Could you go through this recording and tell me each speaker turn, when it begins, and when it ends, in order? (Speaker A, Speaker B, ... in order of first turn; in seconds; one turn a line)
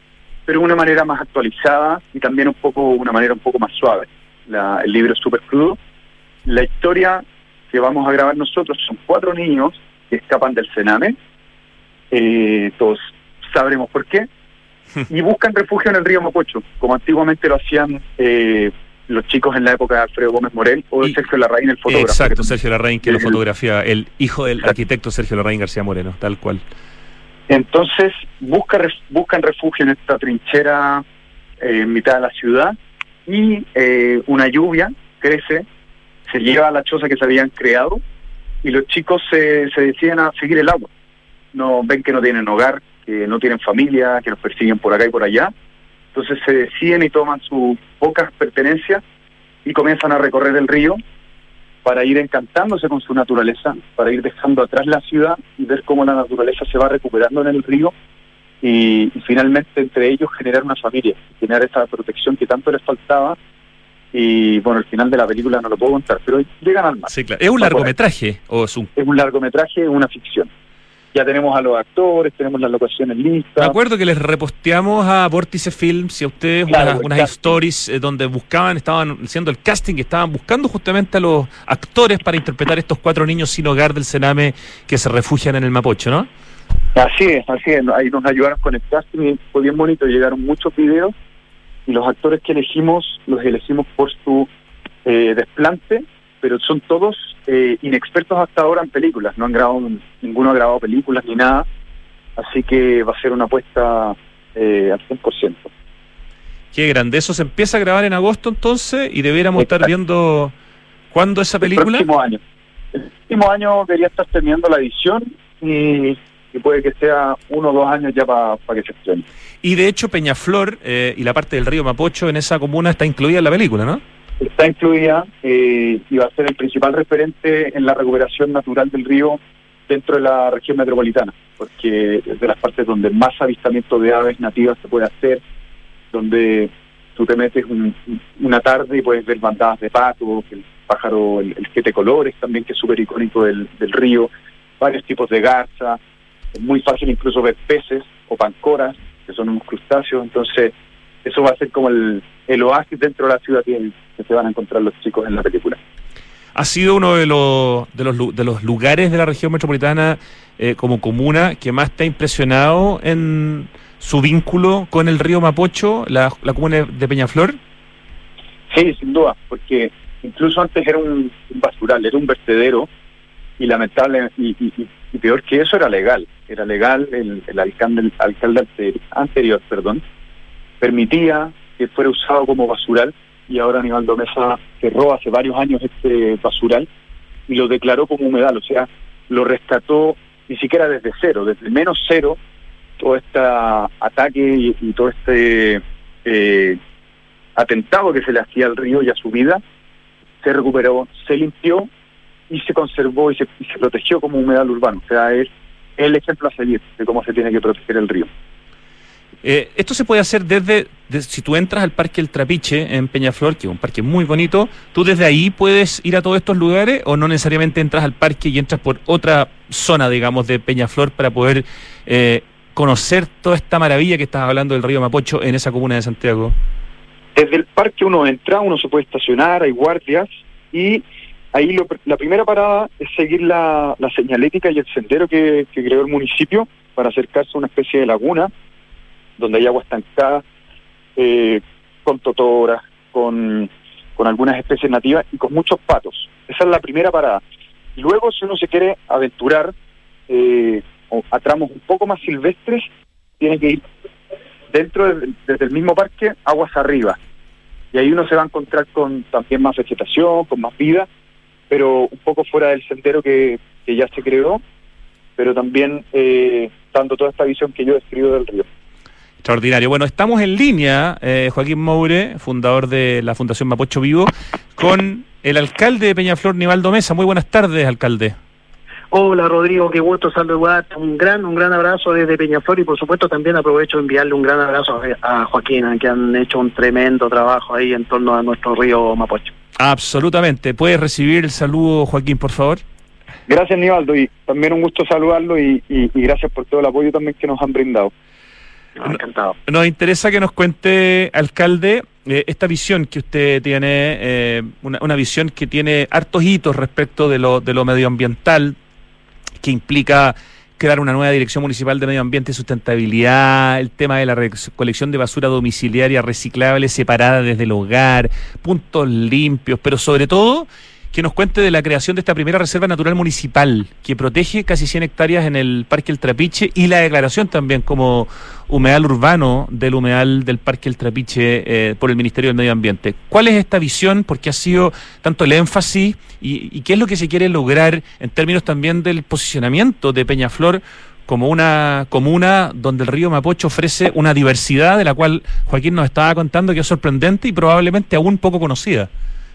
Speaker A: 0.5-5.8
Speaker A: 6.4-11.2
Speaker A: 12.1-14.3
Speaker A: 15.1-22.5
Speaker B: 21.9-26.6
Speaker A: 23.0-23.4
Speaker A: 27.5-31.0
Speaker A: 31.6-35.6
Speaker A: 36.3-38.0
Speaker A: 38.6-40.9
Speaker A: 41.5-45.5
Speaker A: 46.1-49.0
Speaker A: 49.6-51.0
Speaker A: 51.8-57.9
Speaker A: 58.6-63.4
Speaker A: 64.1-67.9
Speaker B: 67.1-68.9
Speaker A: 69.0-70.5
Speaker A: 71.1-73.8
Speaker B: 73.6-86.3
Speaker A: 76.7-77.3
Speaker A: 87.0-91.1
Speaker A: 91.8-94.5
Speaker A: 95.0-101.7
Speaker A: 102.4-105.7
Speaker B: 106.7-110.5
Speaker B: 111.1-112.0
Speaker A: 111.6-112.4
Speaker A: 112.9-119.2
Speaker B: 119.6-124.0
Speaker A: 124.4-135.4
Speaker A: 136.1-146.0
Speaker A: 146.5-150.7
Speaker A: 151.2-155.8
Speaker B: 156.6-167.6
Speaker A: 168.7-172.9
Speaker A: 173.6-180.0
Speaker A: 180.8-186.9
Speaker A: 187.5-192.4
Speaker A: 193.0-196.8
Speaker A: 197.6-199.6
Speaker A: 200.4-201.9
Speaker A: 202.5-208.3
Speaker B: 209.4-226.5
Speaker A: 227.3-238.5
Speaker A: 239.4-240.4
Speaker A: 241.2-247.4
Speaker A: 247.9-249.7
Speaker A: 250.3-252.8
Speaker A: 253.4-253.8
Speaker A: 254.7-257.2
Speaker A: 257.9-261.1
Speaker A: 261.7-264.6
Speaker A: 265.4-268.6
Speaker B: 269.4-278.4
Speaker C: 279.1-289.5
Speaker B: 289.8-292.8
Speaker A: 293.5-298.1
Speaker C: 299.0-299.5
Speaker B: 299.1-308.8
Speaker B: 309.6-349.1